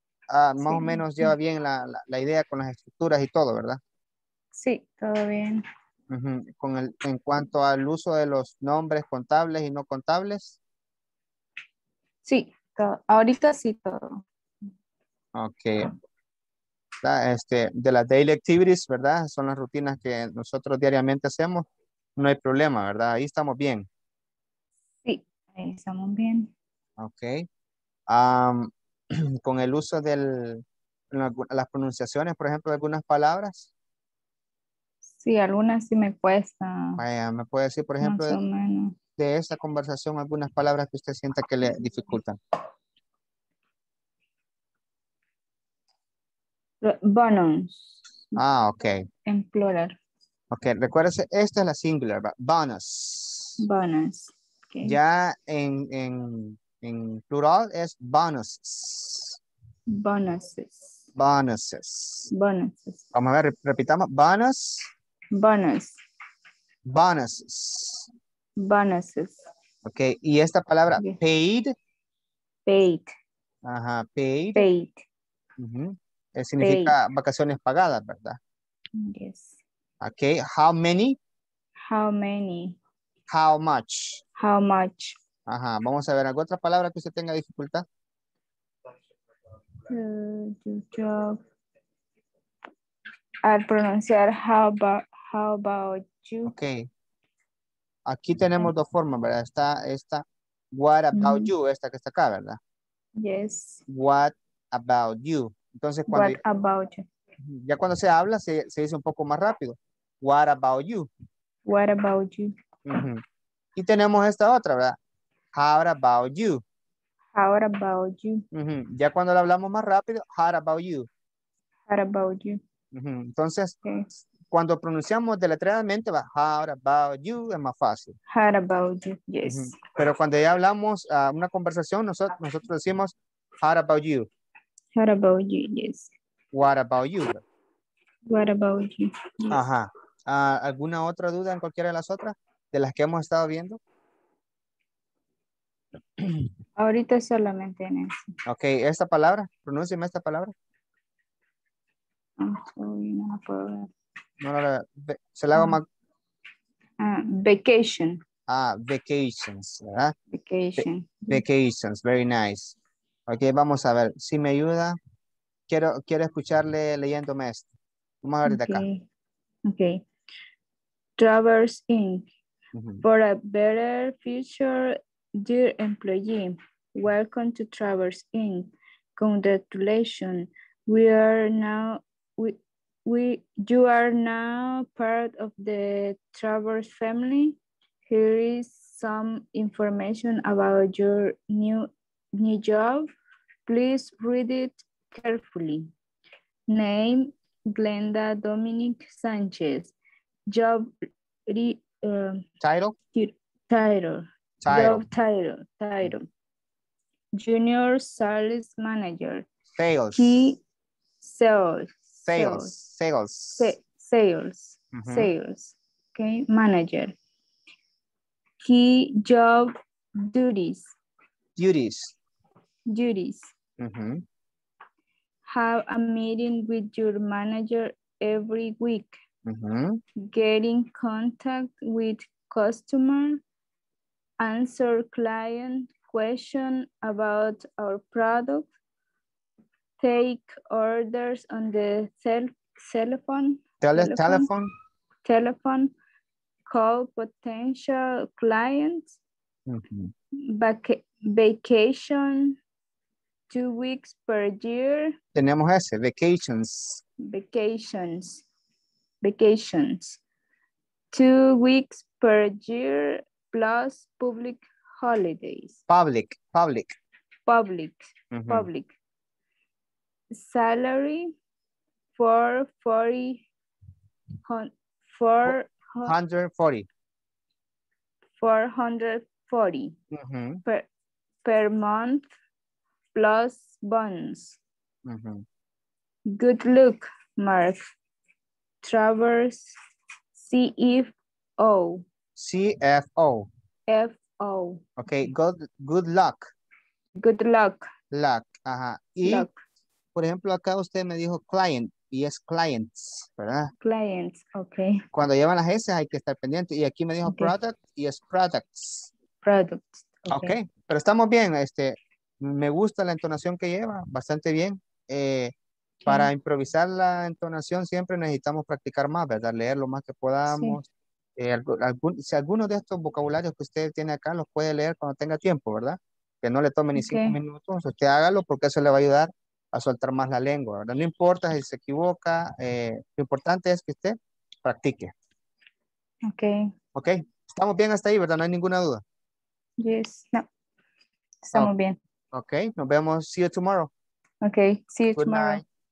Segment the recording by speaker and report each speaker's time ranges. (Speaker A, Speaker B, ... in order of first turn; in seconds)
Speaker A: 0.3-3.8, 6.1-10.6, 15.4-15.8, 17.0-23.9, 27.0-27.5, 28.1-33.7, 37.0-38.4, 39.2-42.4, 48.4-49.1, 50.5-53.6, 54.8-59.4, 61.2-62.3, 63.1-64.8, 66.9-68.1, 69.8-71.7, 73.7-74.7, 75.6-78.4, 80.0-81.2, 83.3-84.2, 85.5-87.8, 96.5-96.9, 98.1-102.6, 103.9-106.4, 107.4-111.1, 112.9-113.2, 113.8-115.0, 115.5-116.6, 118.5-121.1, 122.9-123.8, 124.5-128.2, 129.4-134.3, 136.5-137.4, 139.5-143.8, 146.2-146.5, 148.5-150.5, 154.4-155.9, 158.5-160.1, 160.8-162.8, 163.3-165.0, 165.7-167.7, 168.2-168.9, 172.7-173.0, 202.6-203.0, 204.6-205.0, 209.8-210.5, 212.3-213.8, 214.9-215.3, 221.6-222.1, 223.8-224.2, 229.5-230.0, 243.8-244.7, 249.7-250.1, 255.3-257.0, 265.9-266.9, 268.3-268.7, 275.4-276.9, 280.1-280.6, 285.1-285.4, 292.4-293.5, 295.0-296.5, 298.1-299.5, 300.1-303.7, 305.1-309.1, 310.3-315.5, 316.1-320.9, 321.4-335.1, 336.9-339.0, 342.3-343.9, 345.1-345.6
Speaker B: 0.6-1.3, 4.6-5.6, 12.3-14.2, 25.1-26.5, 35.2-37.0, 38.0-39.0, 46.8-48.4, 49.3-50.0, 53.6-55.0, 60.0-61.0, 62.3-63.1, 65.4-66.0, 68.6-69.3, 72.7-73.1, 74.5-75.0, 76.6-77.0, 79.0-79.6, 81.9-82.8, 84.4-85.2, 89.9-91.4, 93.5-96.5, 101.1-101.5, 103.2-103.8, 106.1-107.1, 111.7-112.5, 117.4-118.4, 121.9-122.6, 128.3-129.8, 135.0-136.1, 138.3-139.6, 146.8-148.3, 152.4-153.9, 155.5-155.8, 157.0-158.2, 160.3-161.4, 168.4-169.0, 169.7-170.0, 171.2-172.3, 173.0-193.1, 193.7-195.9, 196.7-199.9, 200.5-202.4, 203.1-206.3, 207.4-209.5, 210.1-210.6, 211.2-212.7, 213.6-217.1, 218.6-220.9, 222.9-223.5, 225.5-229.2, 230.3-233.4, 234.4-238.7, 240.0-244.5, 245.3-245.9, 246.7-249.2, 250.5-252.6, 253.5-255.2, 257.3-258.4, 259.2-260.2, 261.1-265.8, 267.5-268.9, 270.4-271.4, 272.2-273.4, 274.5-276.1, 278.4-280.0, 281.4-282.3, 283.1-284.6, 286.3-287.8, 288.8-289.7, 290.4-292.1, 293.9-294.8, 297.2-297.9, 299.2-299.5, 303.8-305.1, 307.3-307.5, 309.4-310.6, 326.9-327.4, 336.3-336.7, 339.8-340.5, 341.4-342.0, 344.4-345.6